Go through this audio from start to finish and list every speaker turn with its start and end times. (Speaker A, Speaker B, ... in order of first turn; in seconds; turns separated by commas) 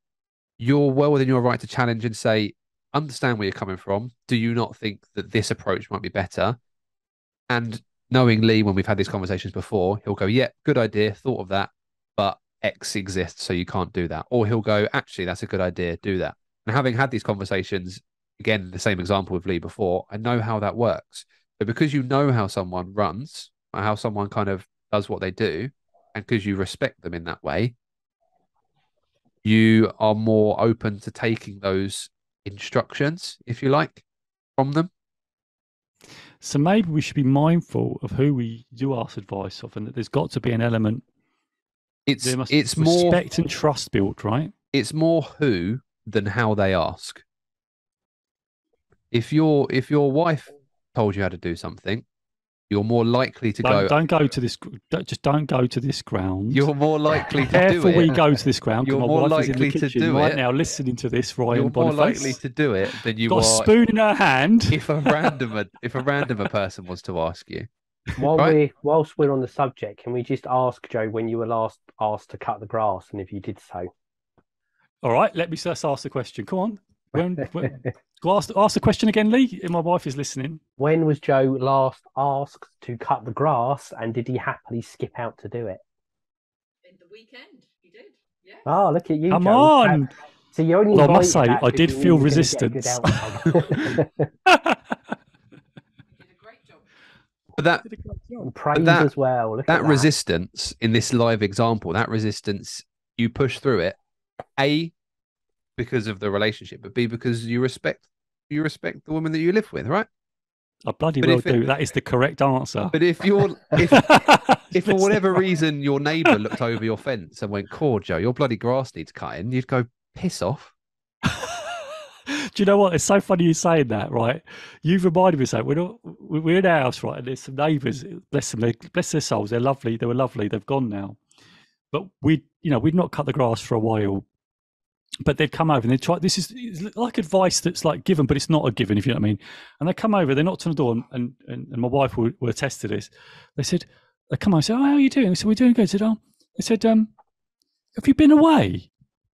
Speaker A: 0.6-6.6, Speaker A: 7.5-27.7, Speaker A: 29.4-34.0, Speaker A: 34.6-34.9, Speaker B: 36.4-41.0, Speaker A: 42.1-43.2, Speaker B: 42.2-44.5, Speaker A: 44.7-47.2, Speaker A: 49.1-52.0, Speaker A: 52.7-53.9, Speaker B: 53.6-56.7, Speaker A: 56.5-58.2, Speaker B: 57.5-62.4, Speaker A: 58.8-60.4, Speaker A: 61.5-63.7, Speaker B: 63.3-65.1, Speaker A: 64.7-67.7, Speaker C: 68.2-73.9, Speaker B: 75.0-80.6, Speaker C: 80.8-85.8, Speaker D: 86.8-88.7, Speaker C: 88.7-94.2, Speaker B: 89.3-90.1, Speaker B: 90.9-94.8, Speaker D: 96.2-96.8, Speaker A: 97.6-97.9, Speaker B: 97.9-98.5, Speaker C: 98.4-100.1, Speaker A: 98.8-99.1, Speaker A: 99.7-104.0, Speaker A: 104.6-104.9, Speaker A: 105.8-110.1, Speaker B: 110.9-113.0, Speaker A: 111.2-111.6, Speaker A: 112.9-114.2, Speaker B: 113.7-115.4, Speaker A: 114.7-120.7, Speaker B: 121.3-131.2, Speaker B: 131.9-134.2, Speaker B: 135.2-147.1, Speaker B: 148.0-148.9